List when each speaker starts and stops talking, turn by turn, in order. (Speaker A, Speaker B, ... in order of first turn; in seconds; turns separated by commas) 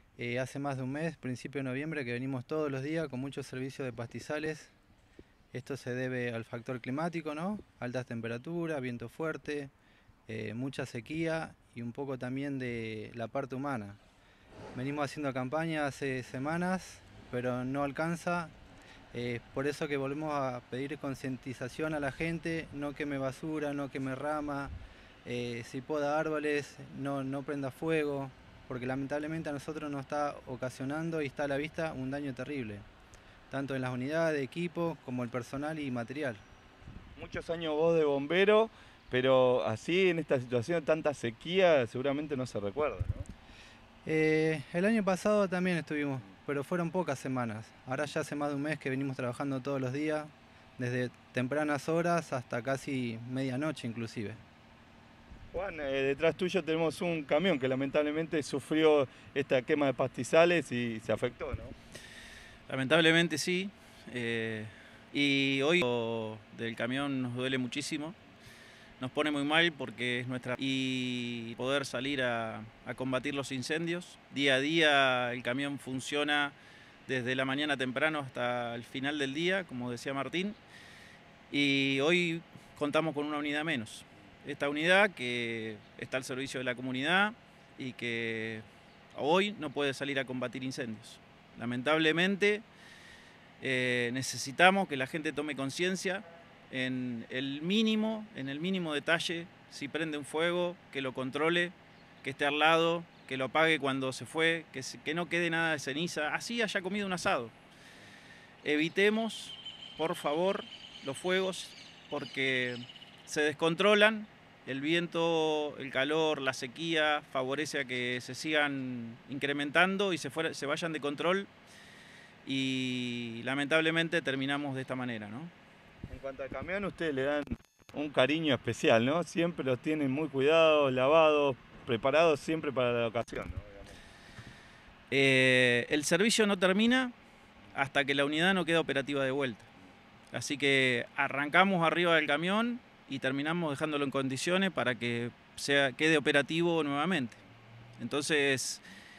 Speaker A: 0.2-4.7, Speaker A: 5.5-9.7, Speaker A: 10.3-14.0, Speaker A: 14.7-18.5, Speaker A: 19.1-24.7, Speaker A: 25.2-32.9, Speaker A: 33.5-36.4, Speaker B: 37.2-43.3, Speaker A: 44.0-54.4, Speaker B: 55.5-61.8, Speaker C: 62.7-68.2, Speaker C: 69.0-80.6, Speaker C: 81.5-92.7, Speaker C: 93.6-107.5, Speaker C: 108.6-121.5, Speaker C: 122.4-125.5, Speaker B: 126.1-134.0, Speaker C: 135.1-137.1, Speaker C: 137.7-139.7, Speaker C: 140.3-147.4, Speaker C: 148.0-148.8